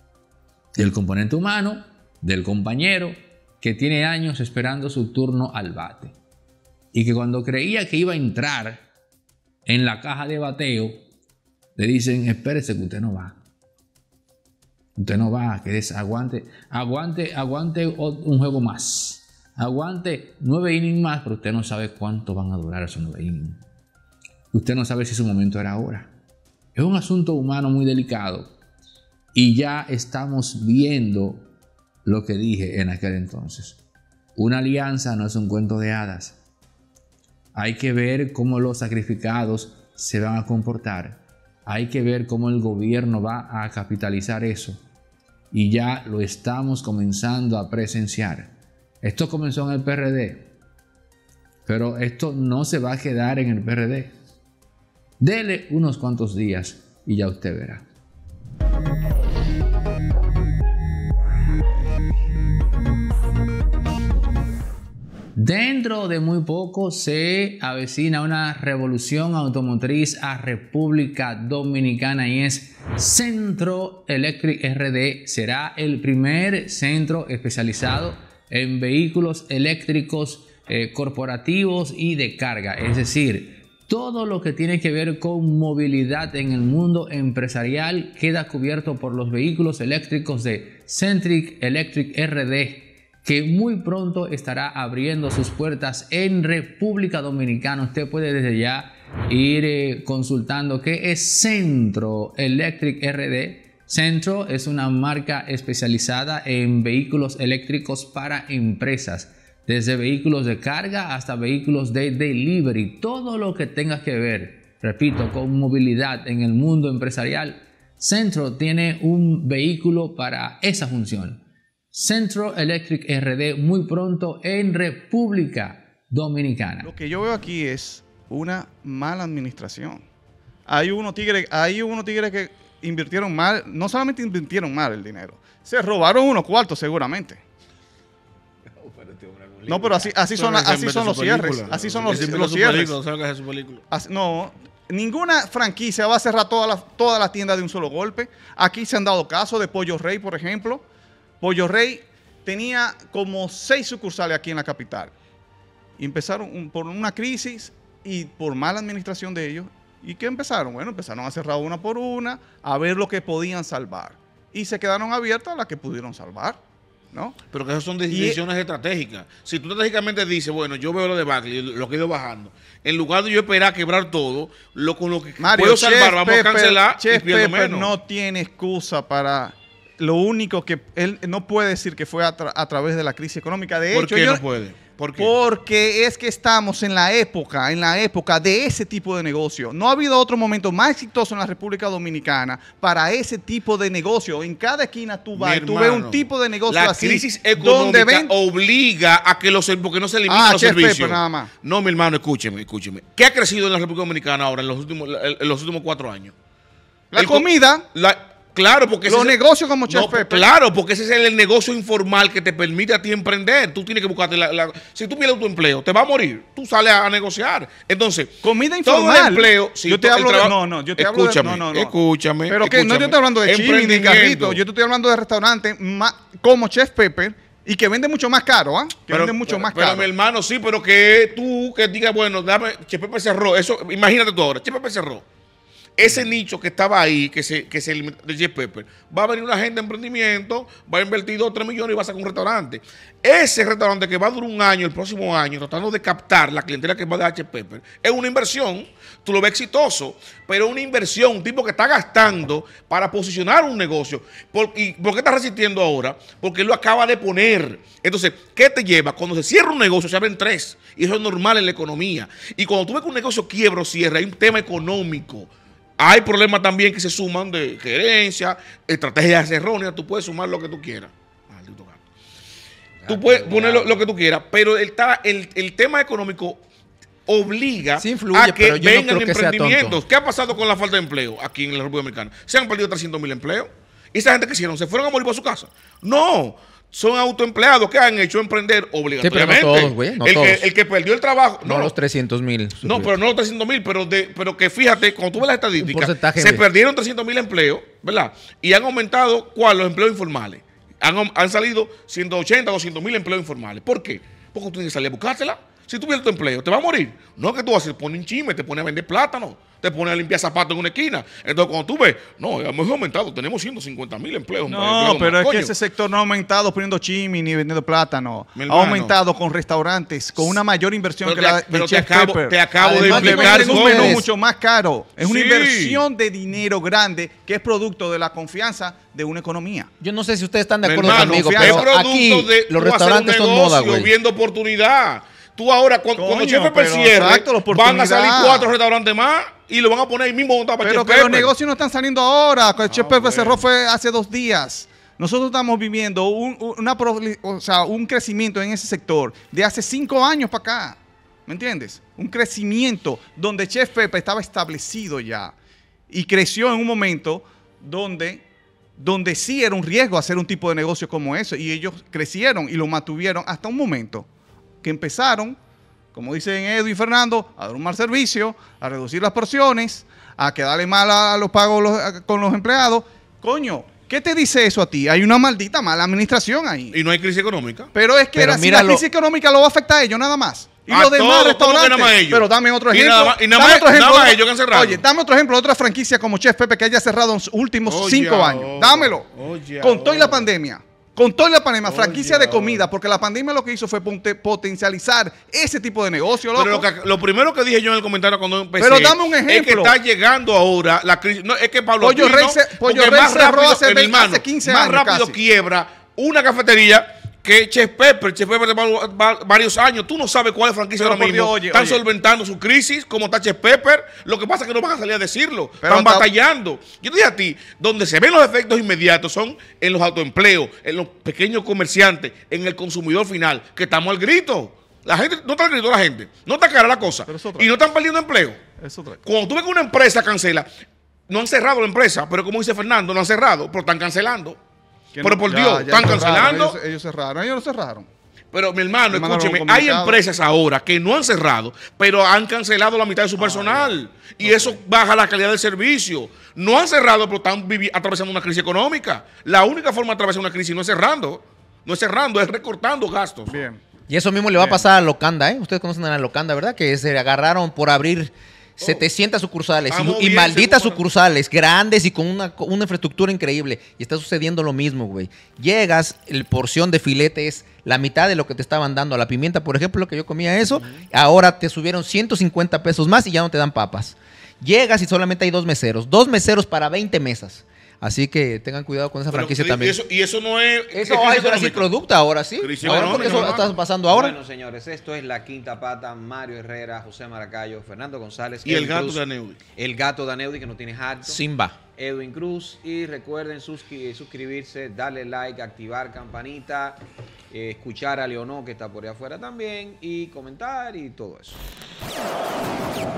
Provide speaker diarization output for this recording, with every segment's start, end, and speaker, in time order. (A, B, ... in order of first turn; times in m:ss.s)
0:00.8-0:06.2 A
0:06.9-0:08.8 A
0:09.7-0:11.0 A
0:11.8-0:13.4 A
0:15.0-0:23.6 A
0:24.5-0:26.1 A
0:26.8-0:28.5 A
0:29.3-0:31.5 A
0:32.0-0:33.8 A
0:34.4-0:36.4 A
0:37.5-0:44.8 A
0:45.5-0:48.5 A
0:49.0-0:50.5 A
0:51.7-0:54.1 A
0:55.2-0:57.8 A
1:05.4-2:01.4 A
2:01.9-2:06.9 A
2:06.8-2:10.0 B
2:10.7-2:17.4 B
2:18.7-2:20.3 C
2:19.7-2:23.0 B
2:20.4-2:23.8 D
2:23.9-2:30.8 B
2:31.4-2:35.1 B
2:36.0-2:46.6 B
2:47.5-2:57.9 D
2:48.1-2:48.4 B
2:55.4-3:04.4 B
3:03.9-3:05.3 D
3:05.2-3:18.3 B
3:15.4-3:26.3 D
3:20.3-3:21.5 B
3:27.1-3:27.8 B
3:27.2-3:29.4 D
3:29.0-3:30.5 B
3:29.9-3:44.6 D
3:38.4-3:41.9 B
3:42.5-3:50.1 B
3:49.1-3:55.2 D
3:56.0-4:32.0 D
4:33.0-4:34.0 E
4:33.1-4:36.6 D
4:37.3-4:52.0 D
4:38.0-4:40.0 E
4:49.2-4:50.7 E
4:51.6-4:53.1 E
4:52.8-5:15.7 D
4:55.8-4:56.6 E
5:14.7-5:29.9 B
5:18.6-5:19.2 D
5:21.2-5:24.2 D
5:22.8-5:24.2 E
5:25.2-5:26.0 D
5:30.0-5:34.1 E
5:30.8-5:41.5 D
5:31.0-5:31.9 B
5:36.2-5:38.7 B
5:40.8-5:55.5 B
5:42.9-5:43.6 D
5:56.1-5:58.4 B
5:59.0-6:04.3 B
6:04.8-6:05.6 B
6:06.1-6:17.0 B
6:16.9-6:17.9 D
6:17.9-6:29.3 B
6:18.3-6:19.0 E
6:20.9-6:25.0 D
6:27.9-6:30.5 D
6:29.8-6:36.9 B
6:31.8-6:32.9 D
6:36.5-7:08.6 D
6:38.8-6:40.0 B
6:42.0-6:45.4 B
6:51.0-6:52.0 B
6:55.8-6:56.3 B
7:07.3-7:07.7 B
7:08.8-7:09.2 B
7:09.2-7:10.7 D
7:11.3-7:14.6 D
7:15.1-7:18.1 B
7:15.2-7:16.8 D
7:18.5-7:33.6 D
7:19.1-7:20.2 B
7:23.4-7:24.8 B
7:33.5-7:33.8 B
7:34.1-8:00.0 E
7:39.9-7:41.2 D
7:59.3-8:01.9 D
8:00.9-8:04.4 E
8:02.6-8:03.7 D
8:02.8-8:09.2 C
8:08.6-8:09.6 D
8:09.7-8:17.0 C
8:11.2-8:11.8 E
8:17.5-8:21.6 C